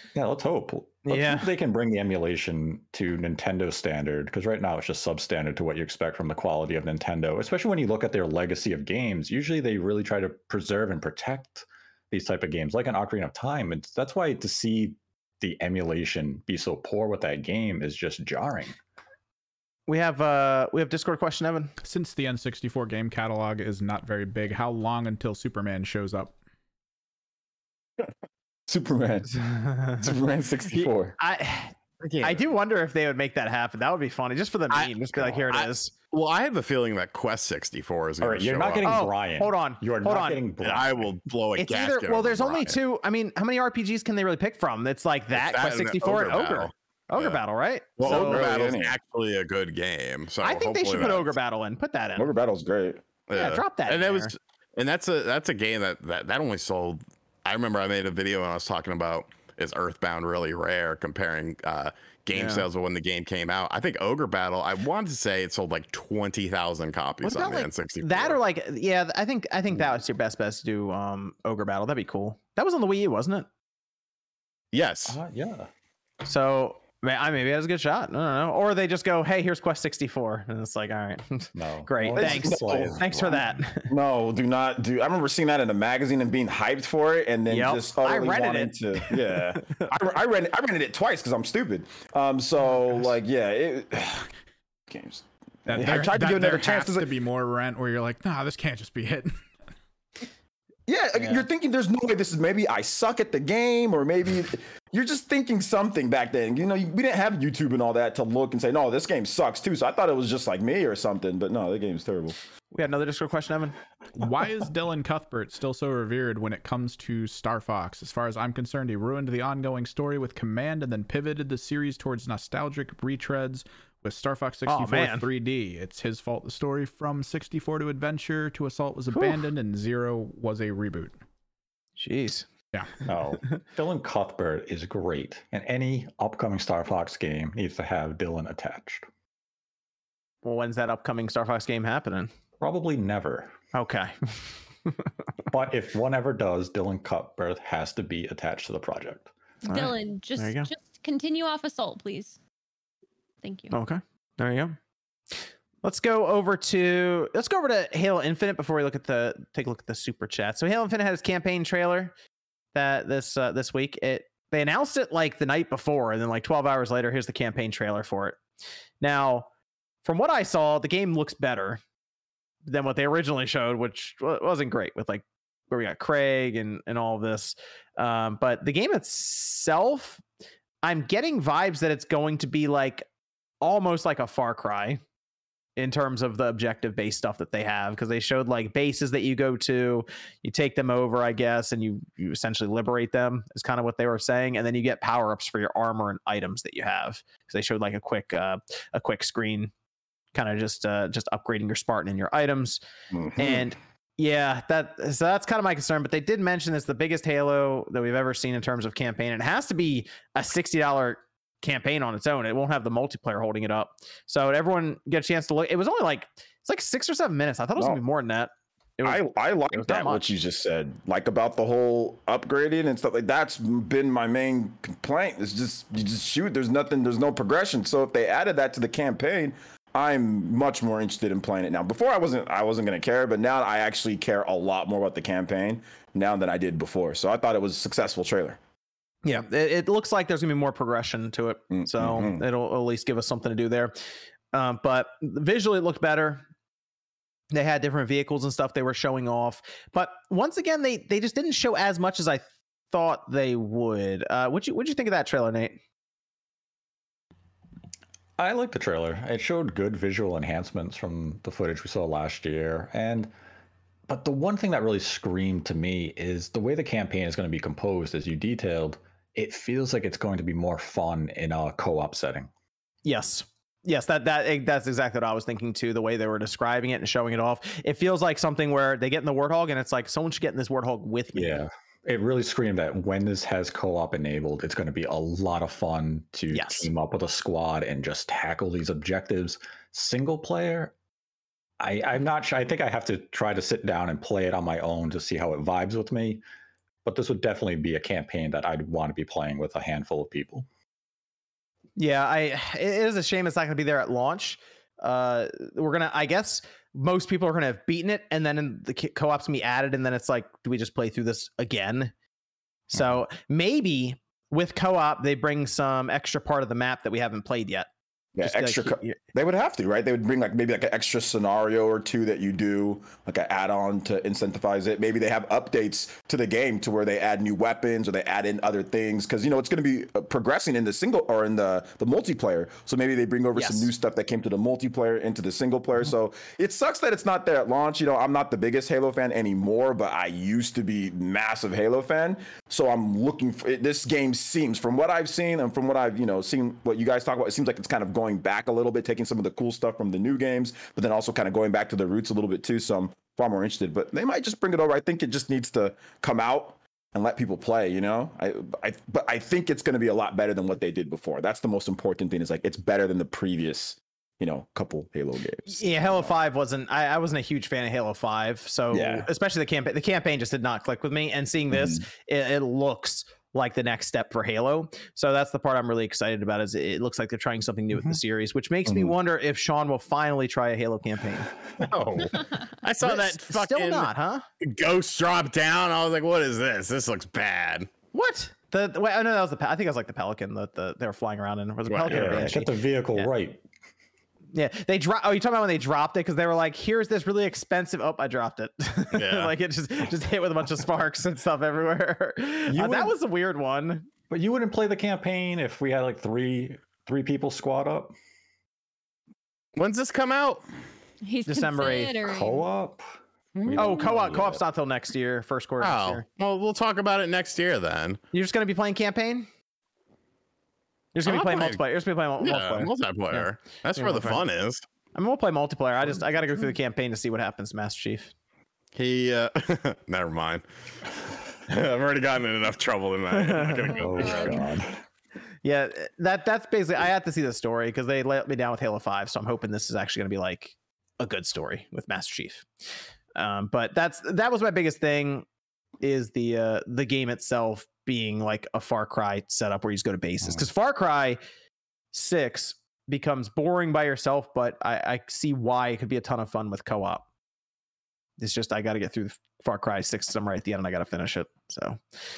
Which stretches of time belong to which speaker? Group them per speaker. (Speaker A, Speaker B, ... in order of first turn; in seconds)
Speaker A: 0.1-18.8, 38.2-41.1, 75.1-75.7, 81.5-83.4, 133.1-139.0, 142.6-143.5, 145.5-149.3, 258.4-263.3, 264.1-272.5, 281.3-290.9, 291.8-296.4, 297.0-300.6, 381.7-382.4, 392.1-393.6, 402.7-403.1, 404.3-408.1, 412.2-413.1, 413.6-414.6, 433.9-435.0
Speaker B: 1.1-1.5, 19.9-21.7, 29.6-30.0, 30.7-35.9, 38.8-40.4, 41.6-48.5, 50.4-52.3, 53.3-54.3, 62.3-62.7, 67.2-73.5, 76.2-83.9, 87.5-89.9, 101.2-101.4, 112.7-113.8, 124.7-125.2, 129.1-129.4, 132.0-132.5, 140.4-142.3, 143.7-145.1, 149.7-150.7, 153.7-154.8, 155.3-162.1, 162.7-168.4, 169.0-169.5, 170.0-171.8, 172.6-180.2, 180.8-183.1, 183.6-185.0, 185.8-199.7, 200.3-202.8, 203.3-220.4, 239.2-244.0, 244.5-246.4, 247.5-255.8, 273.0-281.6, 286.5-286.9, 302.0-312.1, 312.9-317.9, 318.4-319.2, 333.5-333.9, 365.7-381.5, 383.0-384.4, 388.1-393.3, 394.5-404.1, 411.4-412.1, 413.8-416.2, 418.3-419.5, 421.1-424.4, 425.1-428.3, 433.3-434.3, 435.6-442.7, 443.4-445.4, 446.0-451.4, 452.1-457.2, 458.4-462.0
Speaker C: 21.8-26.4, 95.7-99.4, 114.2-131.1
Speaker D: 28.7-29.4, 30.0-31.1, 48.0-48.9, 52.2-53.0, 82.2-94.3, 94.9-97.1, 100.9-112.3, 203.2-203.6, 217.8-218.0, 219.0-238.6, 241.7-242.4, 318.4-366.3, 368.9-369.3, 371.7-372.1, 378.9-379.1
Speaker E: 32.0-32.4, 34.7-39.0, 40.6-42.8, 45.3-47.4, 48.0-51.3, 53.3-68.4, 74.7-75.2, 382.8-387.9, 391.9-392.5, 399.1-399.5, 409.8-410.6, 413.6-414.0, 415.8-418.2, 421.2-421.8, 422.4-424.8, 428.9-430.6, 431.7-434.6
Speaker F: 149.7-152.4, 153.4-153.7, 411.2-412.6, 433.9-434.7